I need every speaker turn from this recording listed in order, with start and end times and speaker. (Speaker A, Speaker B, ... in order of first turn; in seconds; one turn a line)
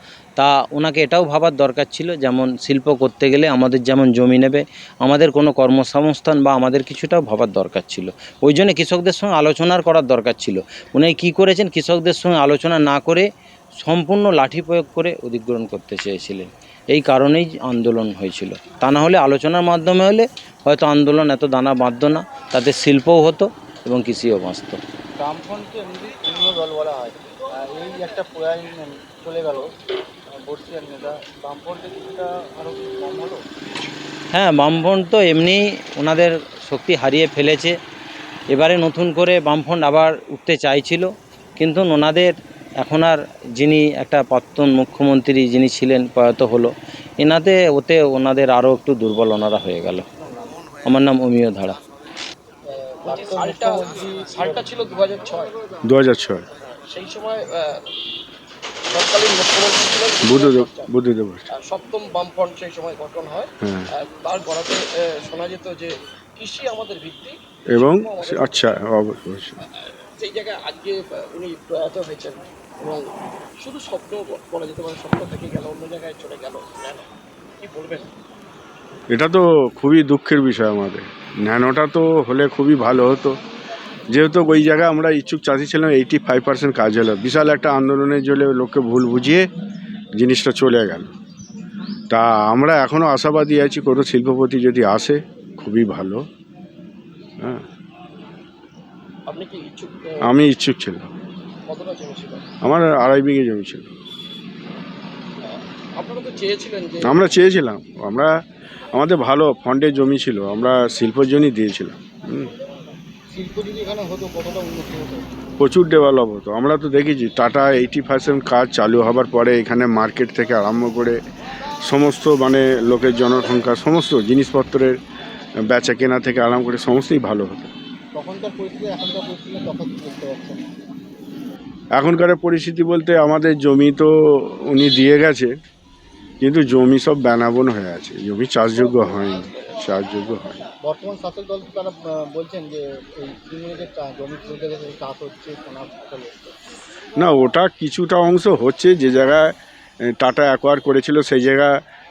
Speaker A: 0.4-13.2
Speaker A: 13.8-24.8
Speaker B: 25.2-29.7
Speaker B: 30.4-33.4
Speaker A: 34.3-37.7
Speaker A: 38.5-41.1
Speaker A: 41.6-42.3
Speaker A: 42.8-50.0
Speaker B: 50.2-50.5
Speaker A: 50.9-51.8
Speaker B: 52.7-54.8
Speaker C: 53.0-55.6
Speaker D: 55.8-56.4
Speaker C: 56.8-57.9
Speaker C: 58.9-60.9
Speaker D: 60.2-61.5
Speaker C: 61.5-68.8
Speaker D: 63.6-63.9
Speaker D: 67.7-69.5
Speaker C: 69.7-77.1
Speaker C: 77.6-78.1
Speaker D: 79.1-83.4
Speaker D: 84.1-89.5
Speaker D: 90.1-91.1
Speaker D: 92.1-96.2
Speaker C: 99.3-100.4
Speaker D: 100.2-101.1
Speaker C: 101.7-102.4
Speaker D: 102.6-103.9
Speaker C: 105.4-107.4
Speaker D: 107.0-108.3
Speaker D: 108.9-112.5
Speaker B: 113.3-115.2
Speaker D: 115.6-121.2
Speaker D: 121.8-125.0
Speaker D: 125.7-127.7
Speaker B: 128.1-130.7
Speaker D: 131.9-135.5
Speaker D: 136.4-140.6
Speaker C: 138.9-139.6
Speaker B: 140.8-146.5
Speaker D: 147.2-151.8